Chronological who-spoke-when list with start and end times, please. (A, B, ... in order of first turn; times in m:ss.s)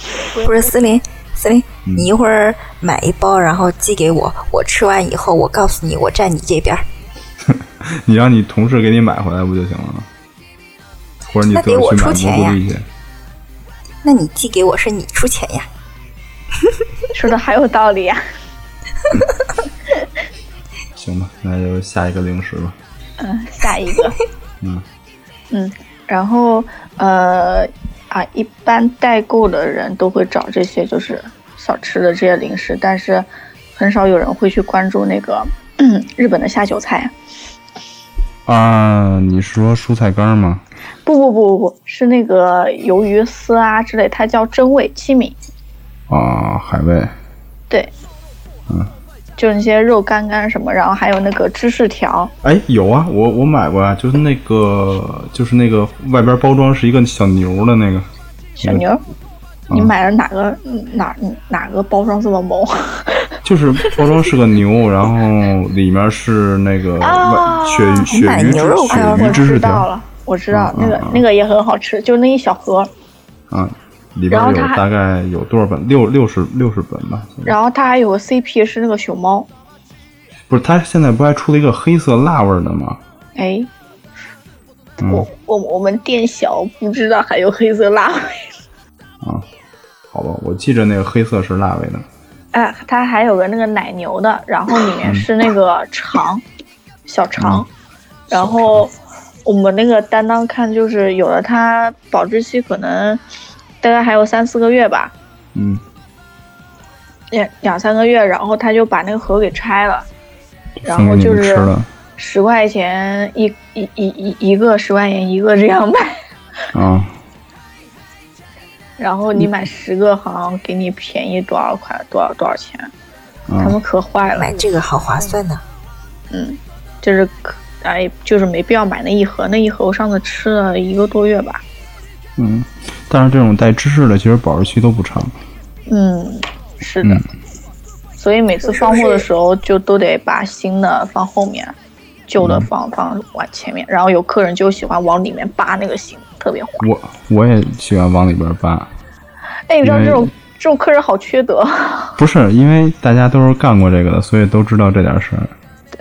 0:00.3-0:00.7 A
0:00.4-0:06.8 B
0:07.4-0:10.1 C
0:11.2-0:12.9 C
0:11.5-0:12.6 B
0:14.0-0:15.7 B
0:17.1-0:18.2 A
0:21.0-0:22.8 C
0:23.2-0:24.2 A
0:25.5-0:37.1 A
0:38.4-0:40.6 C
0:41.0-0:45.4 A
0:46.1-0:47.1 C
0:49.4-0:52.3 A
0:52.4-0:58.1 C
0:58.6-0:59.0 A
0:59.7-1:03.4 A
1:03.4-1:09.9 C
1:07.0-1:12.9 A
1:08.1-1:09.5 B
1:10.5-1:11.2 C
1:13.5-1:17.6 C
1:14.3-1:14.8 A
1:17.4-1:19.5 A
1:20.5-1:23.0 C
1:23.4-1:23.7 A
1:25.0-1:25.3 C
1:25.0-1:28.5 A
1:30.1-1:32.1 C
1:32.5-1:36.4 A
1:35.0-1:35.3 C
1:37.1-1:37.7 A
1:37.4-1:37.6 C
1:38.3-1:38.9 C
1:38.3-1:43.2 A
1:43.8-1:45.1 A
1:45.6-1:45.8 C
1:47.3-1:50.1 A
1:50.8-1:51.9 C
1:50.8-1:56.2 A
1:56.7-1:57.2 C
1:59.0-2:02.9 A
2:03.5-2:03.8 C
2:03.6-2:04.5 A
2:04.4-2:05.6 B
2:06.3-2:11.6 A
2:12.4-2:15.4 C
2:15.9-2:17.2 A
2:18.2-2:21.8 A
2:22.3-2:26.9 A
2:22.4-2:22.7 C
2:26.8-2:28.9 C
2:29.7-2:32.2 A
2:29.8-2:30.3 C
2:32.2-2:35.5 C